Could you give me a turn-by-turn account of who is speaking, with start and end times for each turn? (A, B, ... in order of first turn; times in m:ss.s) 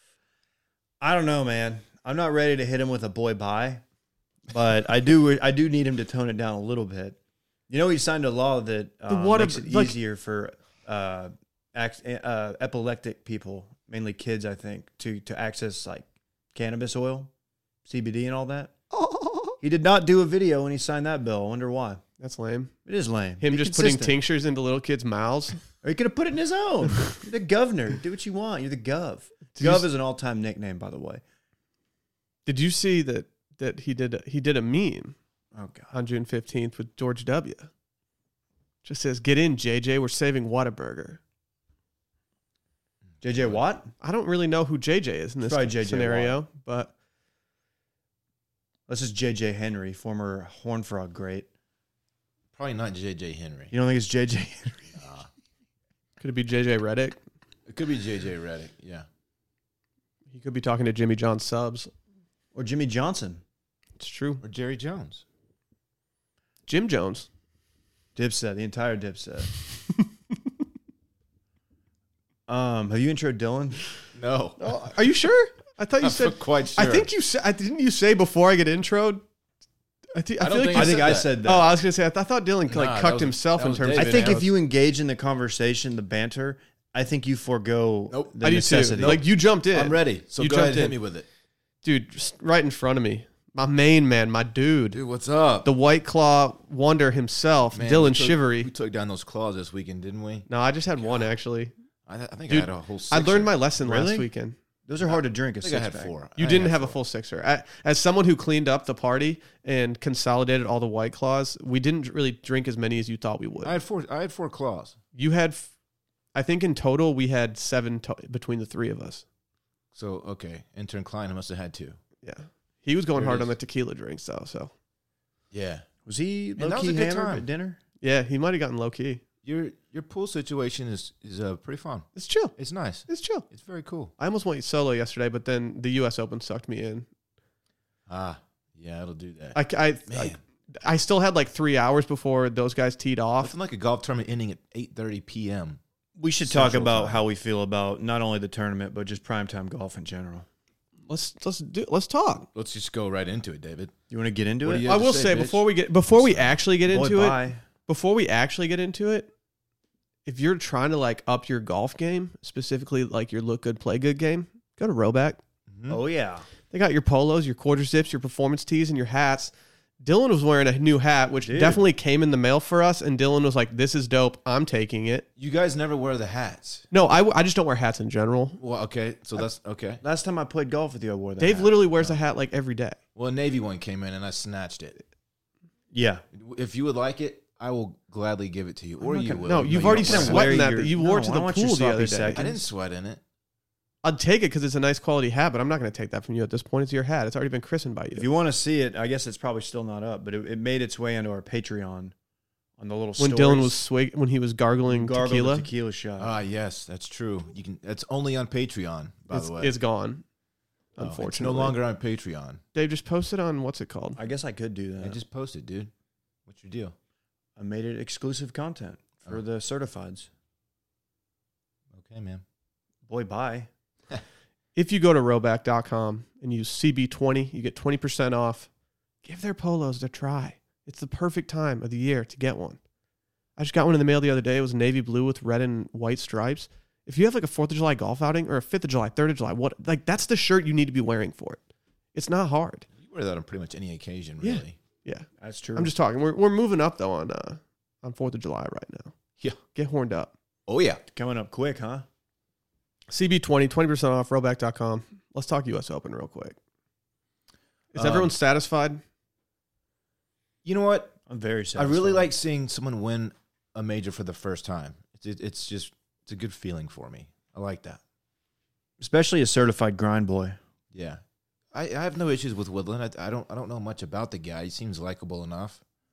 0:01.0-0:03.8 A
0:04.5-0:07.2 A
0:07.7-0:17.3 A
0:09.1-0:10.0 B
0:17.8-0:18.8 A
0:18.9-0:19.5 B
0:19.6-0:22.0 A
0:22.2-0:22.7 B
0:22.8-0:24.2 A
0:23.4-0:25.6 B
0:25.8-0:31.2 A
0:29.6-0:29.8 B
0:32.4-0:35.1 B
0:35.5-0:35.9 A
0:35.9-0:37.7 B
0:38.8-0:41.2 B
0:43.2-0:43.9 A
0:43.2-0:43.6 C
0:44.0-0:46.9 B
0:45.4-0:46.4 A
0:48.9-0:51.5 A
0:52.5-0:53.7 C
0:53.7-0:55.0 A
0:55.0-0:55.3 C
0:56.2-0:57.2 B
0:57.7-0:59.0 C
1:00.3-1:01.9 B
1:02.5-1:03.4 A
1:04.0-1:04.4 B
1:04.4-1:05.2 C
1:06.7-1:07.3 B
1:08.1-1:09.5 A
1:12.5-1:13.8 A
1:14.1-1:14.7 C
1:14.6-1:19.2 B
1:16.0-1:17.1 C
1:20.1-1:24.5 B
1:20.4-1:21.4 C
1:20.7-1:21.7 A
1:22.7-1:24.4 C
1:23.9-1:29.2 A
1:28.1-1:28.3 C
1:28.4-1:31.0 B
1:29.0-1:31.3 C
1:31.8-1:35.0 B
1:34.9-1:35.7 C
1:35.6-1:38.7 B
1:37.7-1:40.5 C
1:40.5-1:41.7 B
1:42.1-1:43.6 C
1:42.5-1:44.6 B
1:43.8-1:44.3 A
1:44.9-1:46.1 A
1:45.0-1:47.0 C
1:46.4-1:53.8 B
1:53.6-1:55.0 C
1:55.1-1:55.7 B
1:56.3-1:59.2 B
1:59.9-2:02.0 C
2:02.2-2:04.7 B
2:03.1-2:03.5 C
2:05.5-2:05.8 C
2:06.0-2:07.8 A
2:06.6-2:07.4 C
2:08.0-2:09.2 B
2:09.4-2:14.1 C
2:12.2-2:12.5 B
2:13.1-2:13.4 B
2:14.2-2:17.1 B
2:18.1-2:20.4 C
2:19.5-2:23.5 B
2:23.4-2:25.8 C
2:26.2-2:30.4 A
2:26.4-2:27.2 C
2:31.1-2:32.4 B
2:32.5-2:33.9 C
2:34.1-2:34.9 A
2:34.6-2:36.6 C
2:34.8-2:39.3 B
2:36.9-2:37.6 A
2:40.2-2:45.4 B
2:45.7-2:46.0 C
2:45.9-2:46.4 A
2:46.7-2:55.2 B
2:51.4-2:51.8 A
2:55.4-2:56.8 C
2:56.9-2:58.6 B
2:58.6-3:00.0 C
3:00.0-3:01.7 A
3:01.4-3:03.0 B
3:03.1-3:05.0 C
3:05.9-3:06.2 A
3:06.3-3:10.5 C
3:09.0-3:12.6 A
3:09.5-3:12.4 B
3:12.3-3:13.2 C
3:14.0-3:18.3 B
3:18.1-3:22.1 A
3:22.8-3:23.8 A
3:23.2-3:25.7 B
3:24.9-3:26.3 A
3:26.2-3:29.7 C
3:29.3-3:30.2 B
3:31.0-3:31.8 B
3:31.0-3:32.6 C
3:32.7-3:34.2 B
3:34.2-3:35.2 A
3:35.0-3:35.9 C
3:36.5-3:36.9 C
3:37.6-3:40.3 A
3:41.9-3:42.4 C
3:43.1-3:43.7 A
3:44.8-3:48.7 B
3:49.2-3:52.8 B
3:53.6-4:01.6 B
4:02.1-4:02.8 B
4:03.0-4:04.8 C
4:04.4-4:09.1 B
4:05.4-4:05.9 A
4:09.7-4:10.3 B
4:10.7-4:11.0 C
4:11.1-4:12.0 A
4:13.1-4:16.6 B
4:17.9-4:19.0 B
4:18.0-4:18.3 C
4:20.6-4:21.2 C
4:21.3-4:22.3 A
4:21.8-4:28.0 C
4:29.0-4:30.6 A
4:30.9-4:31.2 C
4:31.7-4:35.8 C